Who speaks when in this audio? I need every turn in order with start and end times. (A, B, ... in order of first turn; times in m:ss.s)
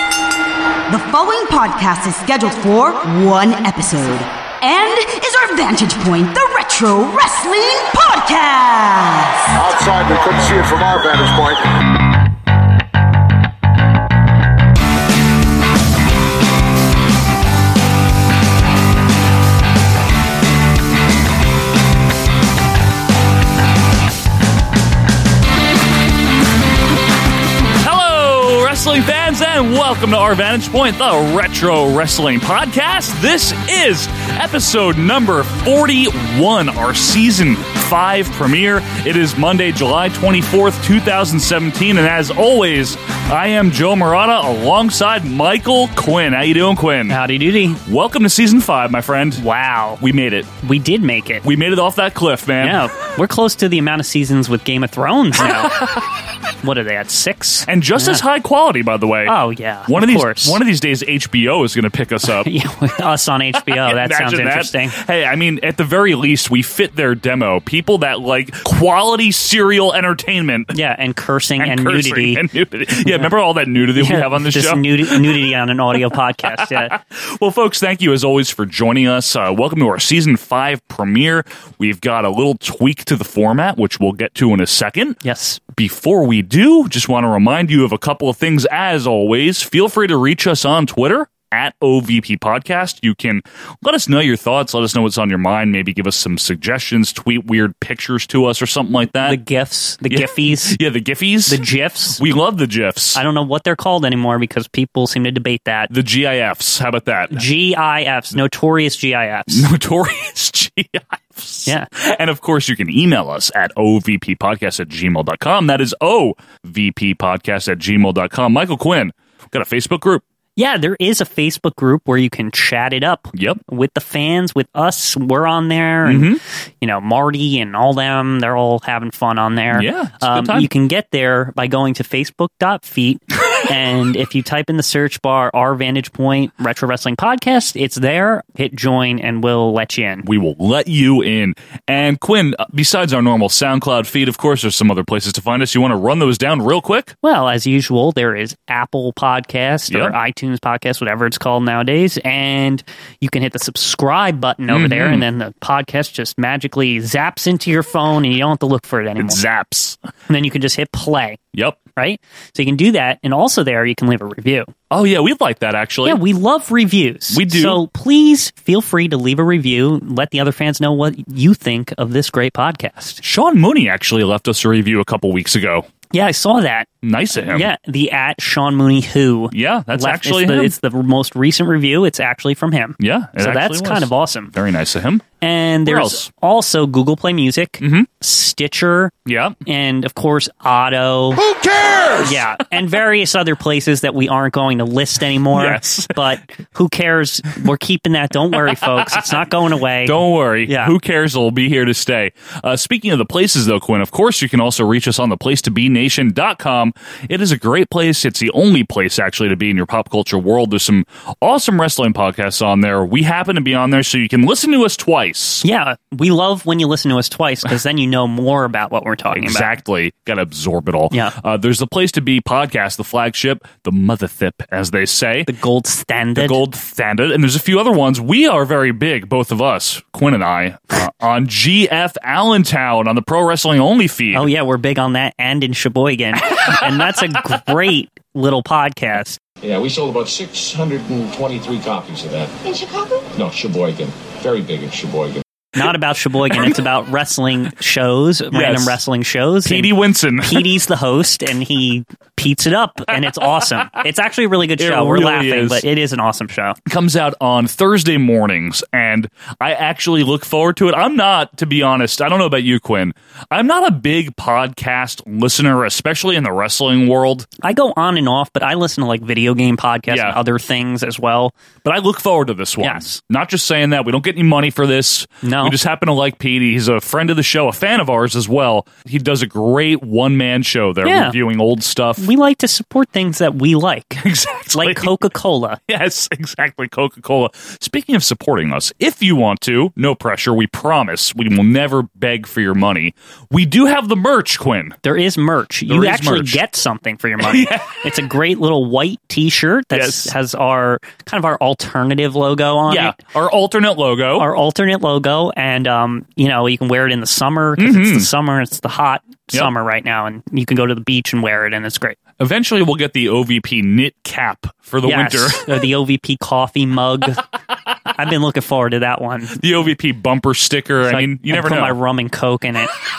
0:00.9-0:09.4 A
0:09.5-0:11.8 B
0:27.8-0:47.2 C
0:47.1-0:47.8 D
0:47.8-0:49.4 C
0:49.4-0:50.0 D
0:50.0-0:50.5 C
0:50.6-0:51.4 D
0:51.4-0:52.8 C
0:52.6-0:55.8 D
0:55.4-0:56.0 C
0:56.6-0:58.2 D
0:57.7-0:59.3 C
0:59.2-1:00.6 D
0:59.9-1:02.5 C
1:02.4-1:05.0 D
1:03.6-1:10.7 C
1:10.7-1:12.4 D
1:11.6-1:15.5 C
1:14.0-1:16.9 D
1:16.6-1:25.2 C
1:25.2-1:25.6 D
1:25.7-1:39.4 C
1:39.2-1:40.8 D
1:40.1-1:41.6 C
1:41.5-1:42.2 D
1:42.2-1:43.2 C
1:43.1-1:45.9 D
1:45.9-1:47.4 C
1:47.3-1:49.6 D
1:49.5-2:00.2 C
2:00.6-2:20.3 D
2:03.3-2:03.6 C
2:06.0-2:06.4 C
2:09.7-2:10.7 C
2:20.2-2:27.1 C
2:27.2-2:39.4 D
2:29.9-2:30.1 C
2:34.7-2:35.2 C
2:39.2-2:40.0 C
2:40.3-2:41.4 D
2:41.5-2:41.8 C
2:41.9-2:44.7 D
2:44.9-2:46.2 C
2:46.0-2:53.2 D
2:47.3-2:47.8 C
2:53.2-2:55.9 C
2:56.1-3:04.5 D
2:57.0-2:57.7 C
2:59.5-3:00.7 C
3:03.0-3:05.2 C
3:05.4-3:09.1 D
3:05.8-3:06.3 C
3:07.8-3:08.1 C
3:09.2-3:09.6 C
3:09.6-3:11.4 D
3:11.4-3:12.4 C
3:12.2-3:20.9 D
3:15.5-3:16.2 C
3:18.6-3:19.4 C
3:20.0-3:35.6 C
3:35.6-3:39.7 D
3:39.3-3:45.5 C
3:45.5-3:46.6 D
3:46.4-3:54.5 C
3:54.3-3:59.4 D
3:59.6-4:02.6 E
4:03.3-4:05.4 E
4:05.8-4:16.8 D
4:08.5-4:09.0 C
4:09.6-4:10.6 C
4:14.8-4:15.8 C
4:16.8-4:27.5 C
4:27.6-4:31.5 D
4:30.1-4:30.4 C
4:31.8-4:42.3 C
4:32.8-4:33.1 D
4:35.4-4:35.8 D
4:41.0-4:41.4 D
4:42.2-4:45.8 D
4:44.2-4:45.2 C
4:45.9-4:55.0 C
4:55.0-5:03.2 D
4:55.9-4:56.6 C
4:57.4-4:58.0 C
4:59.9-5:00.3 C
5:02.9-5:04.5 C
5:04.4-5:12.2 D
5:07.8-5:08.3 C
5:12.4-5:15.6 C
5:15.0-5:17.4 D
5:18.1-5:19.6 D
5:19.5-5:22.0 C
5:21.0-5:22.9 D